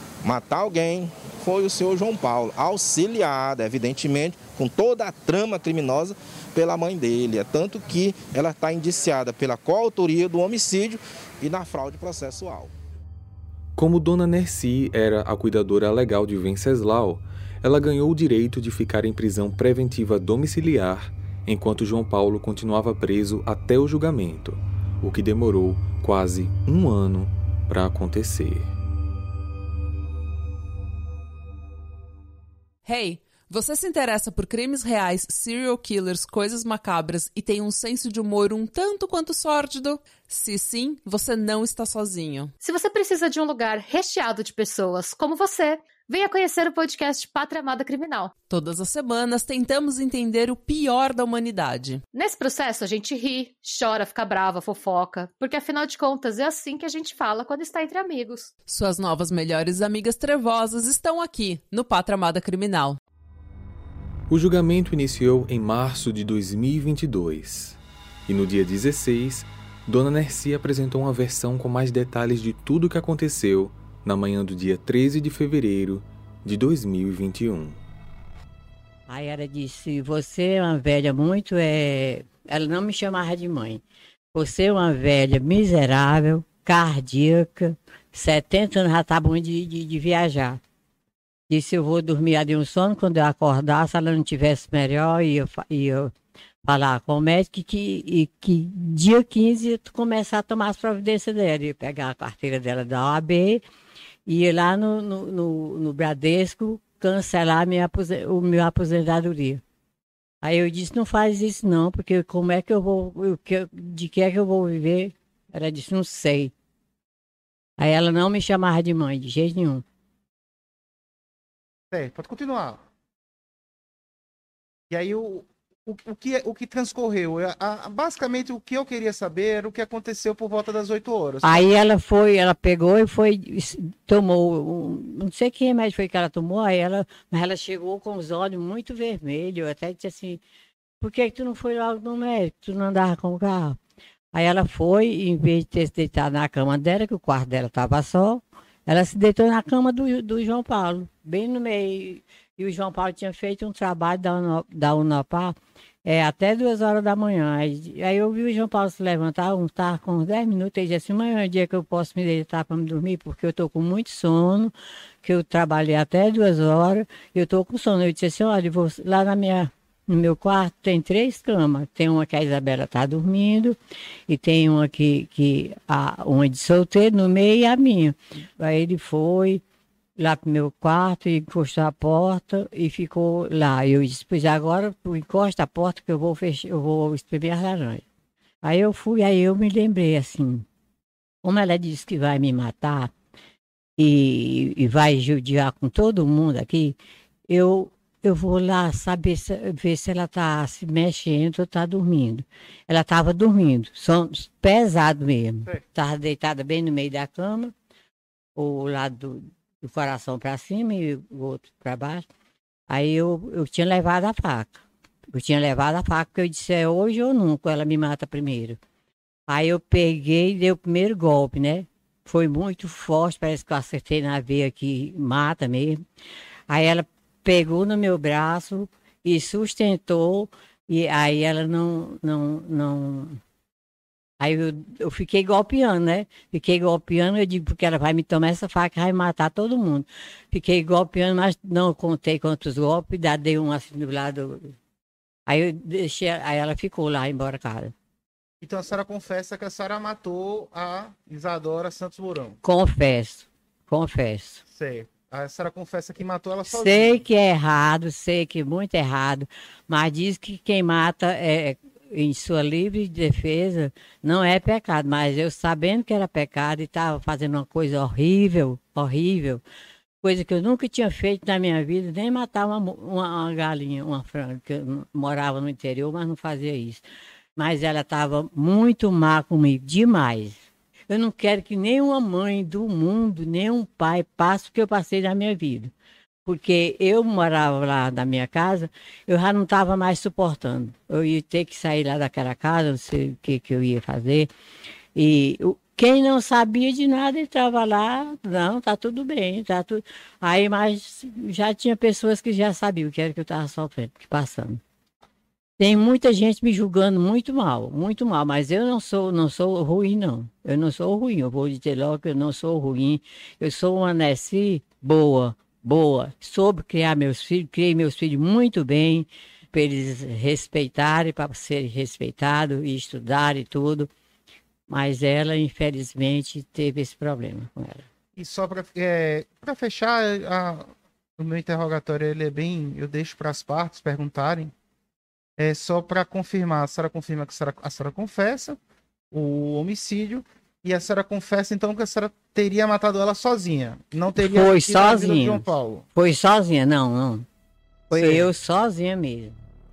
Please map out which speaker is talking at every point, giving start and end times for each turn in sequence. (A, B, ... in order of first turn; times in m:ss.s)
0:00.2-0:12.7 A
0:13.8-0:28.7 B
0:32.8-0:42.5 C
0:42.6-0:48.4 D
0:48.5-0:52.0 C
0:52.1-0:58.5 D
0:58.7-1:03.0 C
1:04.3-1:17.8 B
1:19.1-1:23.8 E
1:24.3-1:30.6 E
1:31.5-1:36.1 E
1:36.6-1:43.6 E
1:44.3-1:49.6 E
1:50.4-1:56.5 E
1:57.8-1:59.8 E
2:01.9-2:02.8 F
2:04.9-2:11.6 F
2:11.4-2:20.4 E
2:21.0-2:23.8 E
2:24.3-2:53.8 E
2:54.3-2:59.6 E
3:00.2-3:08.0 E
3:08.6-3:10.6 E
3:11.4-3:13.1 E
3:14.0-3:17.0 E
3:17.5-3:27.7 E
3:28.6-3:32.2 E
3:32.9-3:38.8 E
3:39.5-3:46.0 E
3:46.7-3:53.4 E
3:54.4-4:04.7 E
4:05.5-4:07.9 E
4:08.6-4:12.6 F
4:12.6-4:14.6 E
4:14.7-4:17.2 F
4:16.7-4:29.6 E
4:30.2-4:37.0 E
4:37.6-4:45.9 E
4:46.4-4:54.5 E
4:55.1-5:04.8 E
5:05.8-5:24.1 E
5:24.9-5:28.0 E
5:28.4-5:34.7 F
5:35.6-5:38.8 F
5:39.3-5:46.0 F
5:44.4-5:47.4 E
5:48.1-5:48.5 F
5:48.1-5:49.6 E